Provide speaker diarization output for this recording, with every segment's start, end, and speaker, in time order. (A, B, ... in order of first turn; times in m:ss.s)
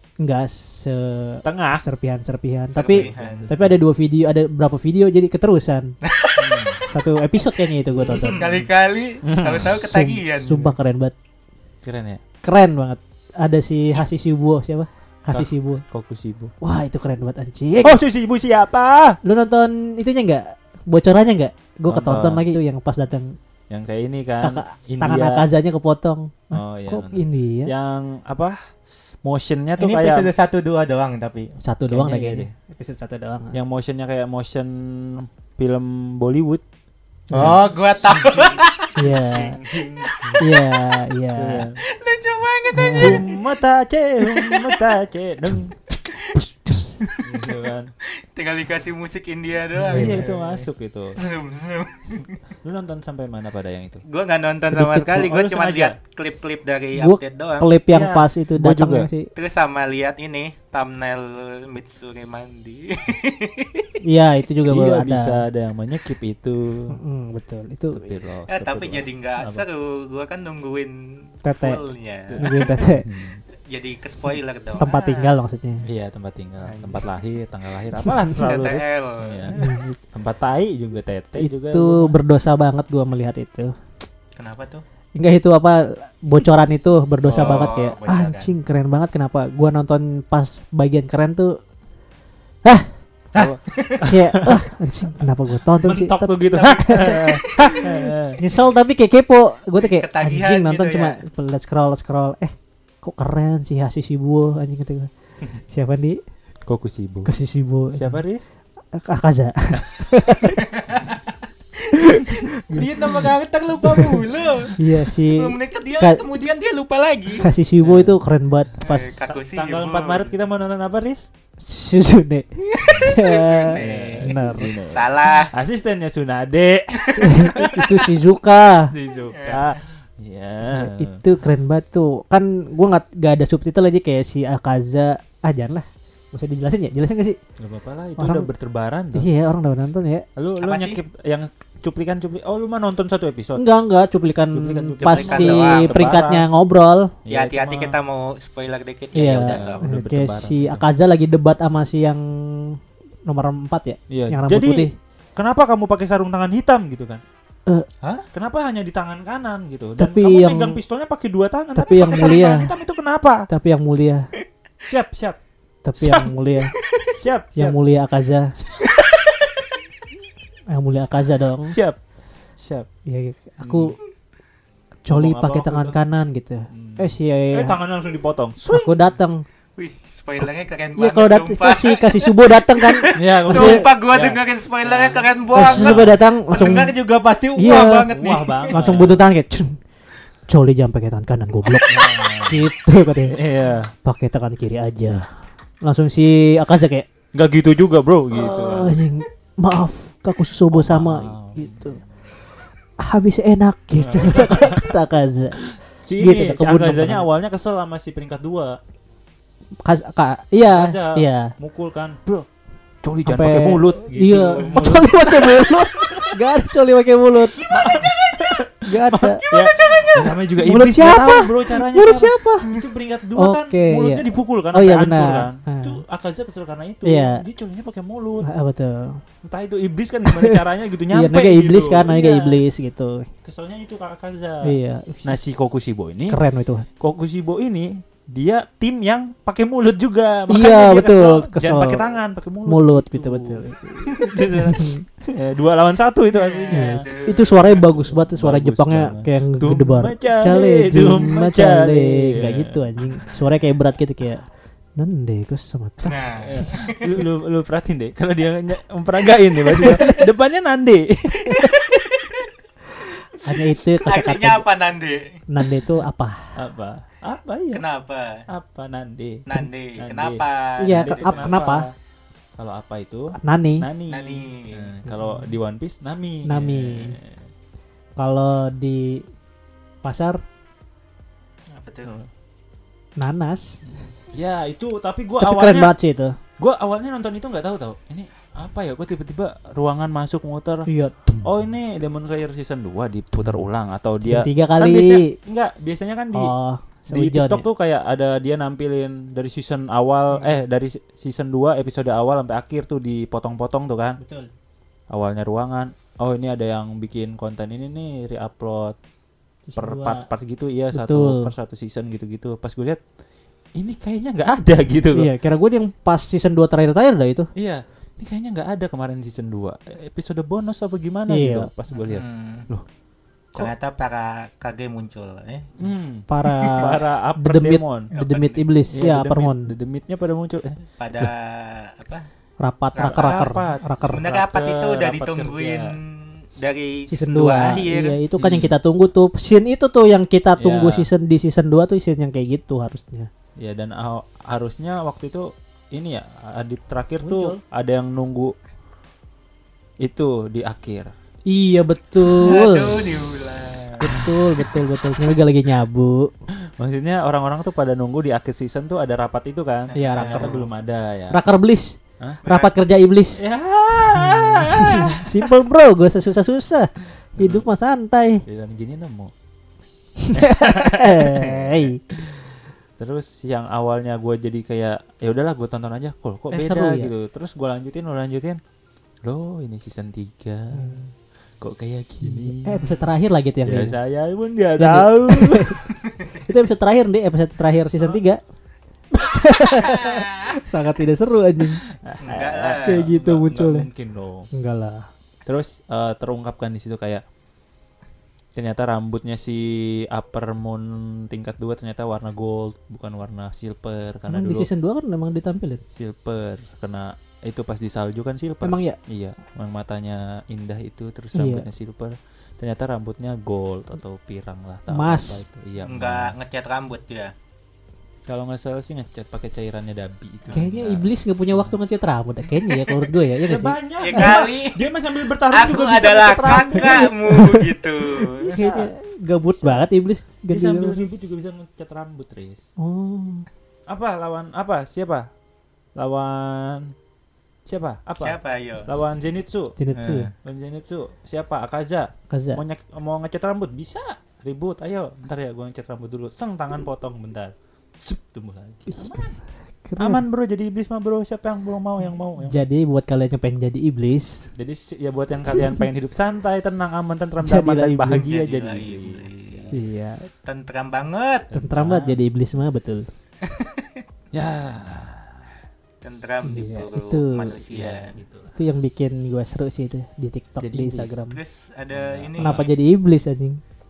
0:00.2-0:05.9 A
0:01.4-0:01.8 B
0:02.7-0:03.5 C
0:02.8-0:03.8 B
0:06.0-0:06.9 C
0:06.4-0:06.8 B
0:06.9-0:08.5 A
0:07.9-0:08.7 B
0:08.0-0:10.7 C
0:09.2-0:09.8 B
0:09.6-0:11.1 A
0:11.8-0:12.2 B
0:12.4-0:15.8 A
0:15.3-0:16.5 B
0:16.6-0:18.0 A
0:17.8-0:19.2 B
0:19.2-0:23.4 A
0:21.9-0:22.4 B
0:23.7-0:25.4 B
0:24.4-0:27.7 A
0:26.5-0:28.6 B
0:29.2-0:30.3 B
0:29.8-0:31.5 C
0:31.6-0:33.5 A
0:31.9-0:32.5 B
0:33.5-0:36.6 B
0:37.3-0:37.6 A
0:37.3-0:40.5 B
0:37.3-0:39.1 C
0:39.0-0:39.6 A
0:40.0-0:40.4 C
0:40.4-0:41.7 A
0:41.3-0:41.8 B
0:41.8-0:43.4 C
0:42.7-0:43.3 A
0:43.0-0:46.0 B
0:44.2-0:44.9 C
0:46.3-0:47.0 A
0:47.2-0:47.9 B
0:48.2-0:52.4 C
0:49.9-0:50.2 A
0:49.9-0:51.2 B
0:52.6-0:54.0 B
0:54.0-0:57.7 C
0:54.7-0:55.2 A
0:55.0-0:56.0 B
0:57.0-0:59.3 A
0:57.9-0:59.1 B
0:59.3-1:03.9 C
1:04.0-1:05.4 A
1:04.7-1:07.0 B
1:06.9-1:08.1 A
1:07.9-1:09.6 B
1:08.5-1:12.8 C
1:11.4-1:11.8 A
1:12.3-1:13.4 B
1:12.4-1:13.0 A
1:13.7-1:15.3 C
1:14.8-1:15.8 A
1:15.8-1:22.2 B
1:16.6-1:17.0 C
1:18.4-1:19.7 C
1:19.5-1:20.0 A
1:21.4-1:23.7 A
1:24.4-1:24.8 C
1:25.2-1:31.6 A
1:27.2-1:27.7 B
1:27.3-1:28.5 C
1:32.6-1:32.9 A
1:33.3-1:34.1 C
1:33.3-1:34.6 B
1:34.0-1:45.1 A
1:35.8-1:38.4 B
1:36.5-1:37.8 C
1:39.8-1:41.2 C
1:45.7-1:46.2 A
1:46.6-1:47.3 B
1:47.2-1:48.2 A
1:47.9-1:48.5 B
1:48.9-1:50.6 A
1:50.5-1:51.2 C
1:51.8-1:57.5 C
1:51.9-1:53.3 A
1:53.8-1:54.2 A
1:54.8-1:56.2 A
1:57.4-1:59.3 A
1:57.8-1:58.2 B
1:58.8-2:00.3 C
1:59.3-2:01.3 B
2:01.6-2:04.7 A
2:02.7-2:05.5 C
2:03.7-2:07.9 B
2:07.0-2:07.9 C
2:07.2-2:08.9 A
2:08.9-2:11.2 B
2:09.3-2:09.7 C
2:10.6-2:17.4 A
2:17.6-2:19.3 B
2:18.2-2:18.5 A
2:19.1-2:20.2 A
2:20.4-2:23.6 B
2:20.6-2:21.0 C
2:23.6-2:27.2 A
2:24.5-2:26.4 B
2:25.0-2:26.0 C
2:27.2-2:28.0 B
2:27.3-2:29.8 C
2:29.1-2:34.9 A
2:29.4-2:30.8 B
2:34.1-2:37.2 B
2:38.3-2:43.5 B
2:40.0-2:40.8 A
2:41.8-2:42.7 A
2:43.5-2:44.3 A
2:44.8-2:45.4 B
2:45.8-2:46.7 A
2:46.0-2:46.3 B
2:46.7-2:47.1 C
2:47.2-2:47.8 B
2:47.6-2:48.6 A
2:48.6-2:48.9 B
2:48.8-2:49.7 C
2:50.7-2:51.8 A
2:51.7-2:52.0 B
2:52.6-2:52.9 B
2:53.0-2:54.0 A
2:53.6-2:54.0 B
2:55.0-2:57.8 A
2:55.1-2:56.0 B
2:56.7-2:59.0 B
2:58.7-2:59.4 A
2:59.8-3:09.0 C
3:01.0-3:03.9 A
3:03.2-3:06.9 B
3:05.5-3:07.0 A
3:07.6-3:08.1 A
3:07.6-3:09.2 B
3:08.7-3:09.8 A
3:10.5-3:13.4 A
3:11.8-3:12.7 B
3:13.3-3:13.9 B
3:14.0-3:17.1 A
3:17.3-3:19.0 B
3:18.3-3:22.0 A
3:20.7-3:22.0 B
3:23.0-3:27.3 A
3:24.0-3:25.0 B
3:25.5-3:28.8 B
3:29.8-3:31.5 A
3:30.6-3:32.5 B
3:33.0-3:36.4 B
3:33.2-3:38.1 A
3:37.4-3:48.5 B
3:38.8-3:39.4 A
3:39.4-3:40.3 C
3:40.5-3:42.8 A
3:43.3-3:46.0 A
3:47.0-3:47.4 A
3:48.4-3:49.2 A
3:49.4-3:52.6 B
3:50.3-3:53.3 A
3:53.4-3:56.4 B
3:54.6-3:55.4 A
3:56.3-3:56.9 A
3:57.0-4:07.1 B
4:00.5-4:02.1 A
4:02.6-4:05.0 A
4:06.3-4:07.6 C
4:06.7-4:16.2 A
4:07.7-4:13.0 B
4:16.0-4:17.1 C
4:16.4-4:21.8 B
4:19.8-4:20.2 A
4:21.5-4:22.5 C
4:23.3-4:24.6 A
4:24.0-4:25.4 C
4:25.5-4:26.6 A
4:26.5-4:27.8 B
4:27.7-4:28.4 C
4:28.5-4:31.9 B
4:29.5-4:31.4 C
4:30.8-4:31.8 A
4:32.6-4:37.5 B
4:33.4-4:33.9 A
4:34.1-4:34.9 C
4:35.1-4:35.4 A
4:36.4-4:37.2 A
4:38.2-4:39.2 A
4:40.0-4:40.4 A
4:41.7-4:42.2 C
4:43.2-4:43.8 A
4:44.3-4:45.9 B
4:45.4-4:46.4 A
4:46.6-4:50.9 B
4:50.9-4:51.5 A
4:51.4-4:56.5 B
4:54.2-4:55.3 A
4:56.3-4:57.6 A
4:57.1-5:04.2 B
5:04.2-5:04.5 A
5:05.1-5:09.0 B
5:09.7-5:10.2 A
5:09.8-5:13.0 B
5:10.9-5:11.5 A
5:13.8-5:15.3 B
5:15.1-5:17.5 A
5:17.6-5:22.8 B
5:21.3-5:21.7 A
5:21.9-5:22.7 C
5:23.5-5:25.7 C
5:25.8-5:28.1 B
5:26.3-5:29.7 A
5:26.4-5:26.8 C
5:28.1-5:28.6 C
5:28.9-5:31.3 B
5:31.0-5:32.3 C
5:32.6-5:34.2 A
5:32.9-5:33.5 C
5:33.0-5:35.9 B
5:34.1-5:38.2 C
5:37.1-5:43.3 A
5:38.4-5:38.8 B
5:40.6-5:41.1 B
5:43.6-5:48.5 B
5:47.2-5:47.6 A
5:50.0-5:51.1 B
5:51.5-5:53.0 A
5:52.2-5:54.2 C
5:54.0-5:56.3 A
5:54.1-5:54.7 B
5:56.5-6:01.4 B
5:59.9-6:00.6 C
5:59.9-6:00.7 A
6:01.3-6:03.4 A
6:02.4-6:02.7 C
6:03.4-6:05.6 B
6:04.1-6:08.4 A
6:07.4-6:07.6 B
6:08.4-6:09.3 B
6:10.2-6:12.0 A
6:10.3-6:18.6 B
6:16.5-6:17.1 A
6:19.2-6:21.0 B
6:20.7-6:21.1 A
6:21.6-6:22.9 B
6:22.2-6:24.0 A
6:23.6-6:25.8 B
6:24.8-6:25.8 A
6:26.3-6:28.4 A
6:29.1-6:31.8 A
6:29.8-6:30.4 C
6:31.8-6:34.5 B
6:32.2-6:33.0 C
6:32.8-6:33.9 A
6:34.5-6:35.1 A
6:35.4-6:37.2 B
6:38.5-6:44.7 B
6:44.3-6:45.8 A
6:45.9-6:56.4 B
6:48.6-6:49.0 A
6:51.3-6:51.6 A
6:54.9-6:55.4 A
6:55.8-6:57.3 C
6:58.3-7:01.8 B
7:00.5-7:00.9 C
7:00.5-7:04.4 A
7:03.4-7:07.1 B
7:04.0-7:04.8 C
7:05.5-7:08.6 C
7:06.8-7:07.7 A
7:08.4-7:11.1 A
7:08.4-7:08.9 B
7:09.6-7:09.8 B
7:10.5-7:12.7 B
7:12.8-7:13.5 A
7:13.9-7:15.3 B
7:16.0-7:16.9 B
7:17.6-7:19.8 B
7:18.2-7:18.9 C
7:19.8-7:20.3 A
7:19.9-7:20.3 C
7:20.4-7:29.4 B
7:22.3-7:22.6 A
7:28.9-7:30.2 A
7:30.0-7:32.6 B
7:32.4-7:34.5 A
7:34.5-7:39.8 B
7:35.5-7:35.8 A
7:37.4-7:38.3 A
7:38.2-7:39.7 C
7:39.7-7:40.3 A
7:40.4-7:41.5 C
7:41.5-7:42.2 B
7:41.5-7:43.0 A
7:43.4-7:44.0 C
7:44.3-7:45.6 B
7:46.0-7:48.2 C
7:46.4-7:47.6 A
7:47.5-7:48.5 B
7:48.6-7:51.4 A
7:50.6-7:51.2 B
7:51.3-7:52.7 C
7:51.9-7:52.7 B
7:52.4-7:53.6 A